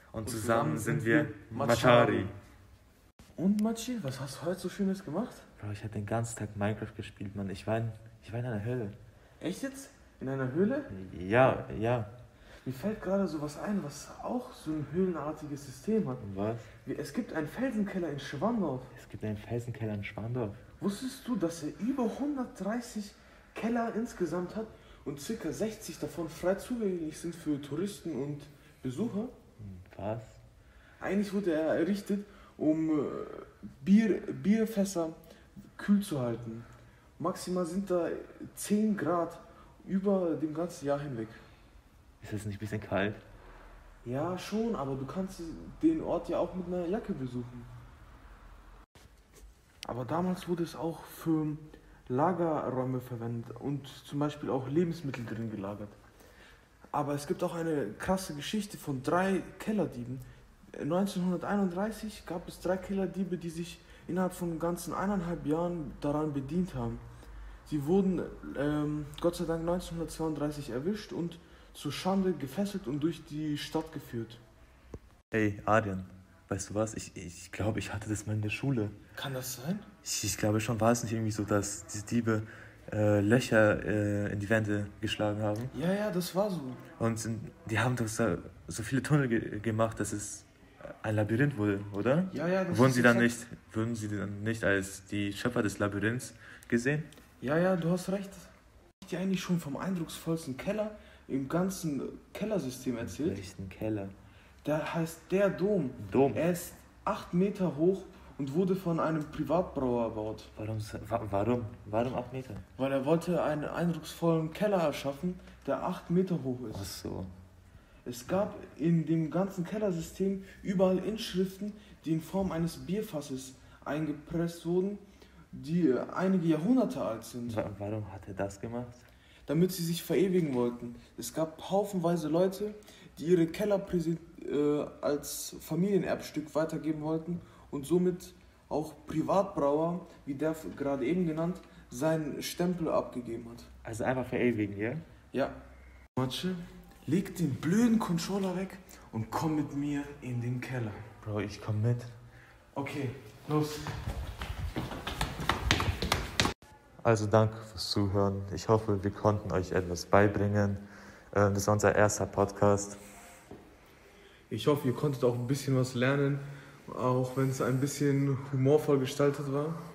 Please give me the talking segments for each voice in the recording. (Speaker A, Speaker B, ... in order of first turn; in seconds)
Speaker A: 0.1-2.3, 5.6-9.0, 10.9-12.1, 16.2-16.7, 18.9-20.6, 29.6-30.4, 42.2-43.2, 75.3-79.0, 80.0-85.7, 87.0-97.1, 103.0-104.2, 106.0-106.4, 110.6-112.7, 116.7-117.3, 127.5-129.1, 143.8-145.1, 151.2-152.2, 157.0-163.0
Speaker B: 0.2-2.3, 3.4-5.5, 9.4-10.9, 12.6-16.2, 16.8-18.9, 20.8-29.3, 31.0-35.2, 35.8-36.7, 37.2-41.4, 44.0-47.7, 49.9-56.0, 56.9-67.0, 67.7-74.4, 79.2-79.9, 85.7-86.8, 92.3-93.4, 97.4-103.4, 104.6-110.5, 112.8-116.9, 118.0-127.6, 129.5-143.7, 145.3-145.6, 146.2-151.0, 152.8-154.0, 164.5-169.9